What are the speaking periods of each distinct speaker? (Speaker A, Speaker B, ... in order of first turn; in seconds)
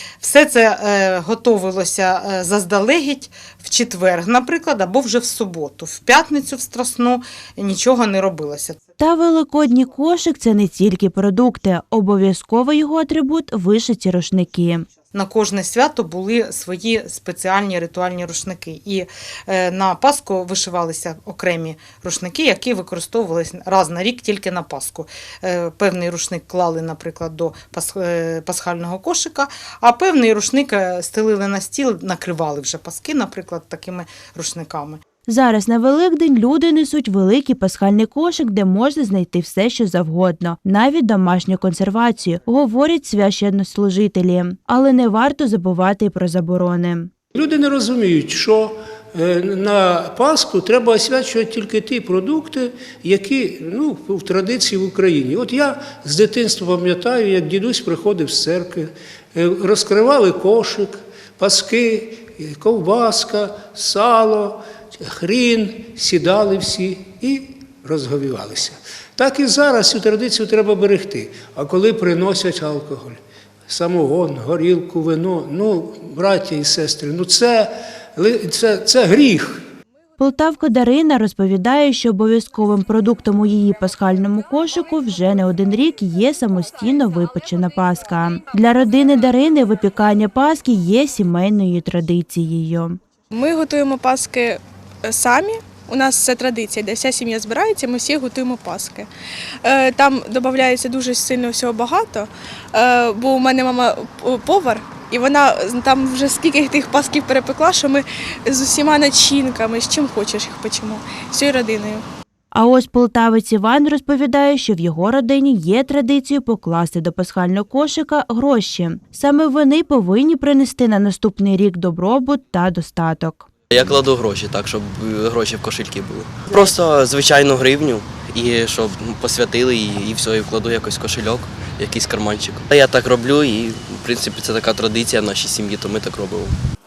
Speaker A: 0.2-8.8, 15.1-35.0
Speaker B: 9.0-14.9, 35.3-47.1, 80.2-93.0, 112.5-123.5
Speaker C: 47.3-79.7
Speaker D: 93.3-99.1, 99.6-112.0
Speaker E: 123.7-136.6